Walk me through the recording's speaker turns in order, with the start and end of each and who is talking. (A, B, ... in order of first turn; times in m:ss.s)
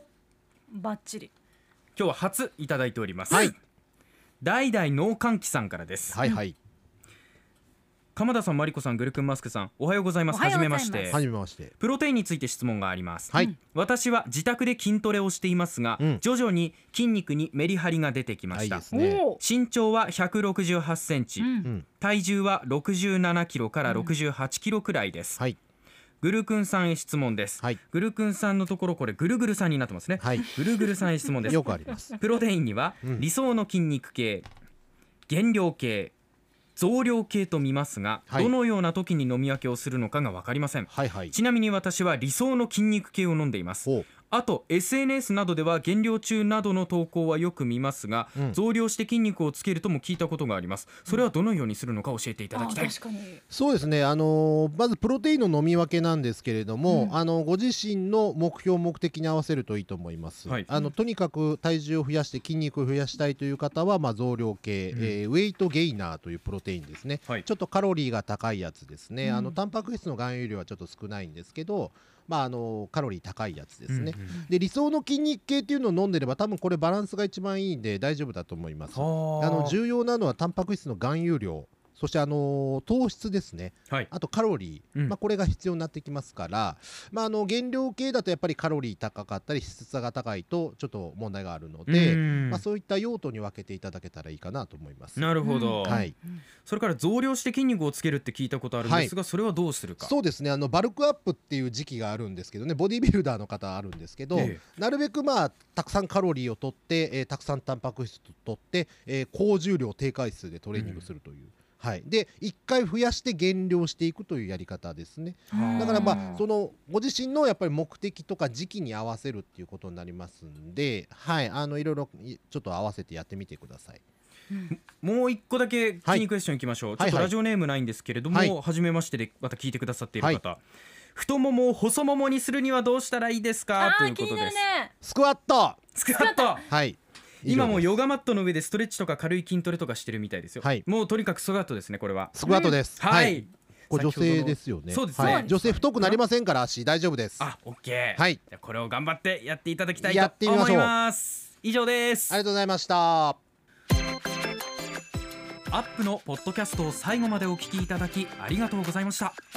0:00.7-0:01.3 A
0:02.0-0:03.5 B
0:03.3-0:03.5 C
0:04.4-0:06.2 B
0:06.1-0:06.5 C
0:08.1-0:11.2 B
0:10.3-0:11.2 A
0:11.1-0:11.7 C
0:11.8-0:18.8 B
0:18.5-0:19.2 C
0:18.9-0:19.4 A
0:19.4-0:25.4 B
0:21.4-0:21.7 A
0:23.9-0:24.1 A
0:26.2-0:34.5 B
0:30.2-0:30.5 C
0:31.4-0:32.2 C
0:35.3-0:36.1 B
0:36.8-0:53.0 B
0:40.9-0:41.3 C
0:52.5-0:53.4 A
0:53.5-1:35.3 C
0:56.9-0:57.2 A
1:04.9-1:05.2 B
1:09.2-1:09.5 A
1:13.9-1:14.4 B
1:18.9-1:19.8 B
1:31.9-1:32.6 B
1:35.2-1:36.0 B
1:35.4-1:36.1 A
1:35.8-1:36.1 C
1:36.6-1:40.1 B
1:38.8-1:39.1 C
1:40.0-2:04.0 C
1:44.3-1:44.6 B
1:50.7-1:51.0 B
1:55.5-1:56.4 A
1:55.5-1:56.4 B
2:04.7-2:10.6 B
2:07.0-2:07.3 C
2:08.3-2:08.6 C
2:11.1-2:14.6 B
2:13.8-2:14.9 A
2:15.0-2:15.8 C
2:15.9-2:16.7 B
2:16.1-2:16.7 A
2:16.7-2:17.9 C
2:17.4-2:22.4 B
2:22.3-2:23.4 C
2:22.4-2:22.8 A
2:23.0-2:26.2 B
2:23.9-2:27.4 C
2:25.2-2:25.5 A
2:27.4-2:32.4 B
2:30.0-2:30.9 C
2:32.3-2:33.4 C
2:35.7-2:39.4 B